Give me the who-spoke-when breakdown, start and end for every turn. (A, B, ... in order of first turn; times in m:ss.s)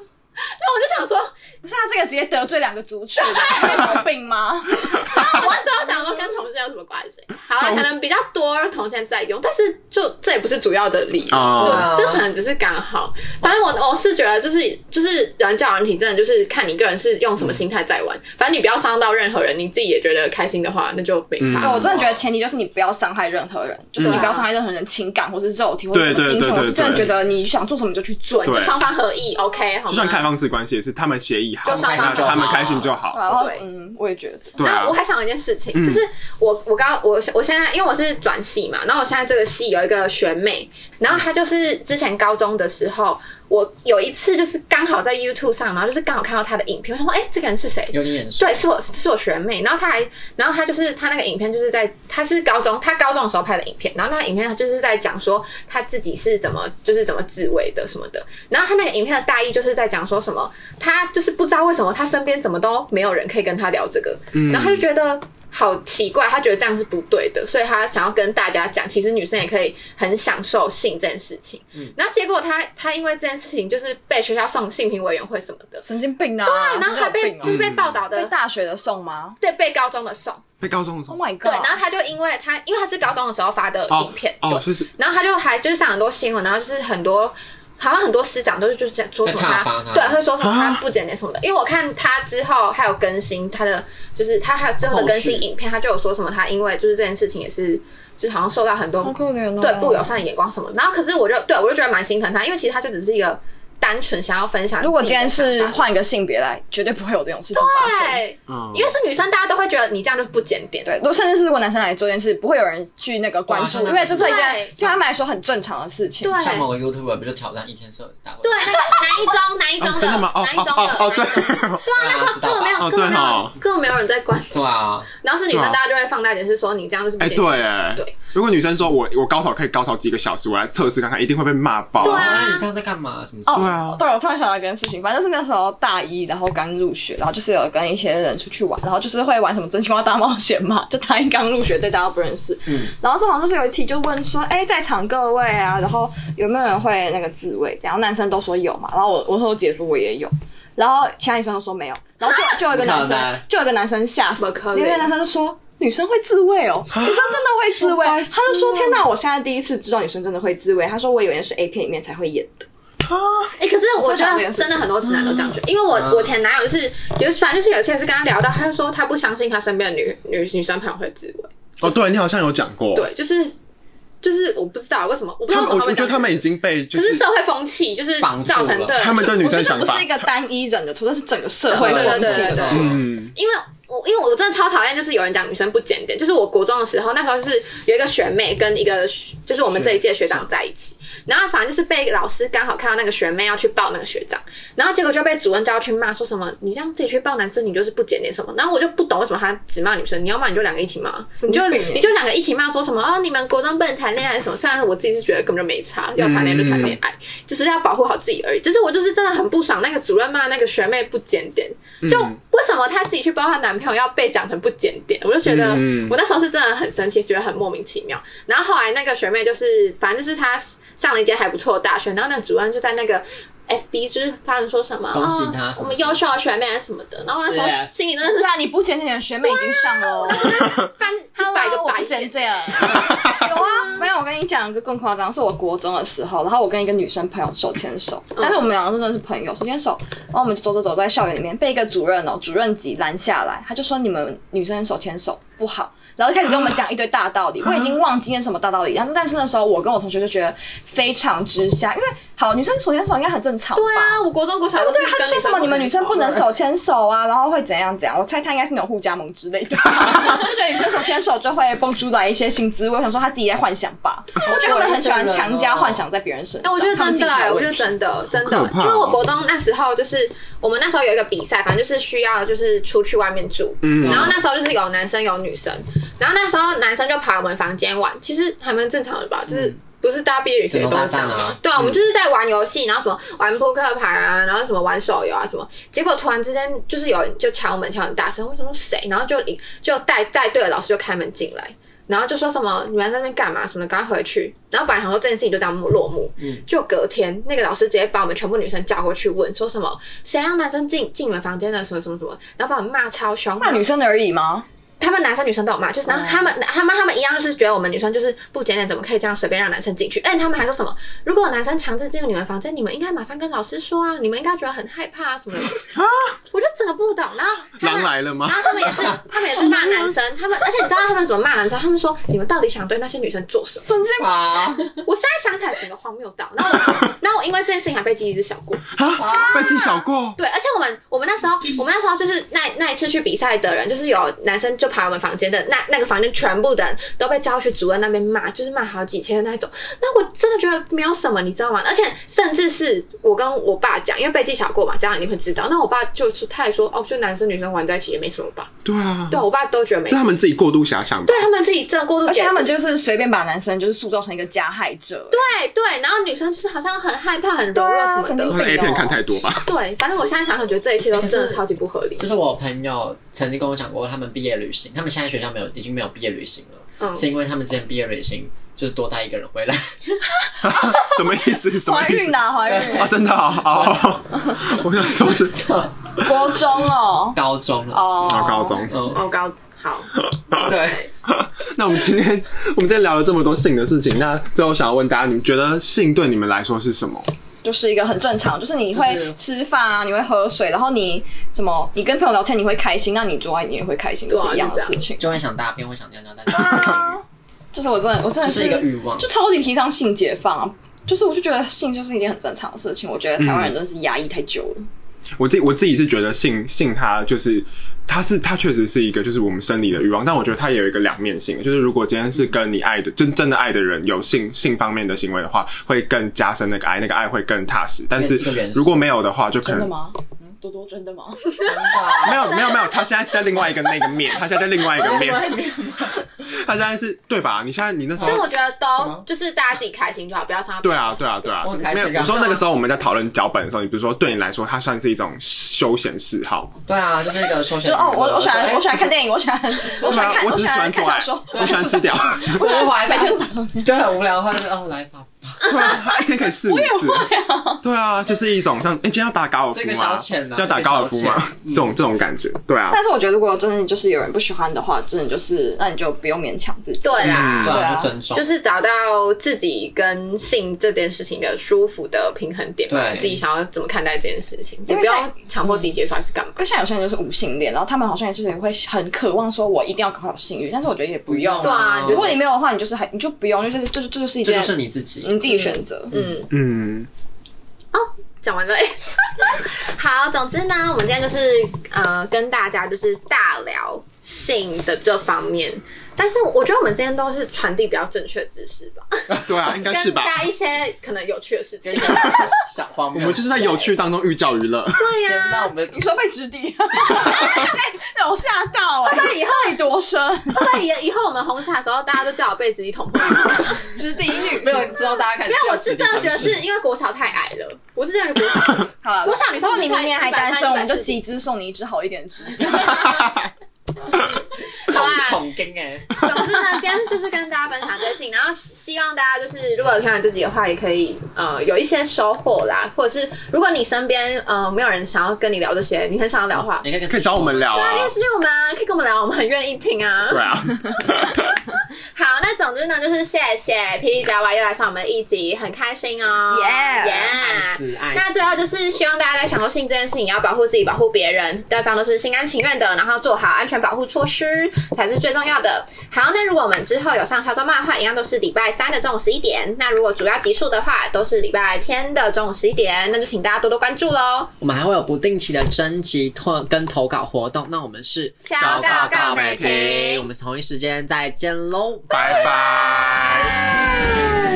0:00.4-0:01.3 A
0:01.6-0:05.2 B
0:03.2-0:04.0 A
0:04.9-0:21.9 A
0:07.6-0:07.8 C
0:11.3-0:11.9 C
0:11.5-0:12.3 D
0:21.4-0:21.8 C
0:21.6-0:28.6 B
0:21.9-0:22.2 D
0:24.0-0:24.4 A
0:24.0-0:24.2 C
0:25.9-0:27.1 C
0:28.4-0:30.3 A
0:28.4-0:28.8 C
0:29.9-0:33.2 C
0:31.6-0:33.6 A
0:31.6-0:32.9 D
0:33.1-0:34.6 B
0:34.6-0:35.0 C
0:34.6-1:15.8 A
0:35.7-0:36.0 C
0:47.9-0:48.6 D
1:04.3-1:04.8 C
1:15.8-1:19.4 B
1:16.4-1:18.3 A
1:17.4-1:18.0 C
1:19.4-1:20.4 A
1:20.6-1:21.2 C
1:21.1-1:21.8 B
1:21.4-1:45.9 A
1:23.9-1:24.9 C
1:29.2-1:30.2 D
1:30.4-1:30.8 C
1:34.8-1:35.5 D
1:39.0-1:40.1 B
1:44.8-1:48.2 B
1:47.5-1:50.9 A
1:48.5-1:48.9 C
1:50.8-1:56.6 B
1:53.5-1:54.5 D
1:54.2-1:55.0 A
1:56.2-1:56.7 A
1:56.4-1:59.4 D
1:58.4-2:08.1 A
1:59.8-2:01.8 C
2:01.9-2:03.4 D
2:02.8-2:03.5 C
2:04.5-2:05.1 D
2:05.5-2:05.8 C
2:07.2-2:12.4 C
2:12.0-2:14.0 D
2:12.0-2:12.6 A
2:13.5-2:42.7 B
2:13.5-2:14.0 C
2:22.7-2:22.9 D
2:32.5-2:33.4 D
2:34.4-2:35.1 A
2:36.9-2:37.3 C
2:43.0-2:43.5 C
2:43.5-2:51.5 A
2:44.0-2:44.9 B
2:45.1-2:45.5 C
2:45.9-2:46.3 D
2:51.8-2:53.1 C
2:52.9-2:53.6 A
2:54.2-2:59.4 A
2:55.5-2:57.2 C
2:58.2-2:59.1 D
2:59.0-3:00.3 C
2:59.2-3:02.8 B
3:01.7-3:03.0 D
3:01.7-3:48.5 A
3:01.8-3:03.3 C
3:09.7-3:10.4 D
3:21.4-3:22.1 B
3:26.2-3:27.0 C
3:32.0-3:32.4 C
3:35.4-3:36.2 C
3:45.1-3:46.2 D
3:47.5-3:47.9 D
3:48.2-3:50.8 B
3:49.4-3:54.0 A
3:51.4-4:14.2 B
3:58.4-3:58.6 A
4:13.8-4:16.5 A
4:14.8-4:27.9 B
4:24.4-4:26.0 D
4:26.6-5:03.8 A
4:28.3-4:29.2 C
4:33.8-4:34.4 C
4:34.0-4:34.4 D
4:39.5-4:39.7 D
4:40.7-4:41.6 D
5:03.6-5:04.6 B
5:05.0-5:15.8 A
5:06.1-5:06.5 B
5:15.9-5:16.3 C
5:16.5-5:23.9 A
5:17.8-5:20.1 C
5:23.8-5:24.8 B
5:24.2-5:25.0 D
5:25.0-5:48.7 A
5:28.9-5:30.4 C
5:29.2-5:29.7 D
5:48.8-5:49.4 C
5:49.3-5:50.3 A
5:50.1-5:51.5 C
5:51.2-5:52.7 A
5:52.2-5:55.4 B
5:55.3-5:58.6 A
5:57.7-5:59.2 B
5:58.5-5:59.6 C
5:59.6-6:02.3 A
6:01.0-6:01.6 D
6:02.2-6:10.2 D
6:07.0-6:07.2 A
6:10.4-6:13.1 B
6:10.6-6:15.7 C
6:12.6-6:15.9 D
6:16.2-6:17.4 B
6:17.3-6:19.2 D
6:17.9-6:18.8 B
6:18.2-6:19.0 C
6:19.0-6:21.1 A
6:20.6-6:21.1 D
6:21.2-6:27.3 C
6:27.6-6:35.4 B
6:28.9-6:29.4 D
6:34.3-6:35.0 A
6:35.2-6:37.2 D
6:36.5-6:44.9 B
6:38.4-6:39.3 D
6:43.4-6:43.8 C
6:45.4-6:59.9 C
6:58.1-6:59.0 D
6:59.6-7:01.6 B
7:01.6-7:02.7 D
7:01.6-7:02.9 A
7:02.2-7:05.7 C
7:04.8-7:06.3 D
7:06.4-7:08.5 C
7:08.2-7:09.2 D
7:08.2-7:12.6 A
7:10.8-7:16.7 C
7:11.6-7:12.6 D
7:16.8-7:19.1 D
7:17.8-7:23.9 B
7:19.8-7:20.4 D
7:20.0-7:22.7 C
7:21.5-7:25.6 D
7:25.6-7:27.3 C
7:25.6-7:27.8 B
7:27.8-7:33.0 C
7:29.7-7:31.9 D
7:32.9-7:38.1 B
7:37.0-7:46.6 A
7:37.2-7:38.5 D
7:37.2-7:37.8 C
7:42.9-7:43.4 D
7:44.9-7:45.9 B
7:46.6-7:56.1 B
7:51.3-7:52.4 D
7:51.6-7:52.4 A
7:54.4-7:55.4 D
7:55.5-7:56.5 A
7:56.5-7:57.1 C
7:57.9-8:12.5 A
8:09.3-8:10.5 C
8:11.8-8:13.9 D
8:13.1-8:15.1 C
8:15.0-8:15.7 A
8:15.2-8:16.1 D
8:15.9-8:20.8 B
8:19.0-8:19.8 A
8:20.5-8:23.9 A
8:23.5-8:24.9 B
8:24.4-8:26.6 D
8:24.8-8:31.2 A
8:29.0-8:33.3 B
8:34.8-8:36.4 D
8:34.9-8:35.4 A
8:36.1-8:46.9 A
8:46.8-8:48.1 D
8:47.1-8:48.1 C
8:47.7-8:50.5 A
8:50.3-8:51.5 C
8:52.1-9:14.5 A
8:56.5-8:57.3 B
8:57.2-8:58.3 D
9:14.6-9:23.7 D
9:18.4-9:20.2 A
9:18.6-9:19.8 C
9:22.1-9:23.6 C
9:22.2-9:22.6 A
9:23.6-9:24.4 A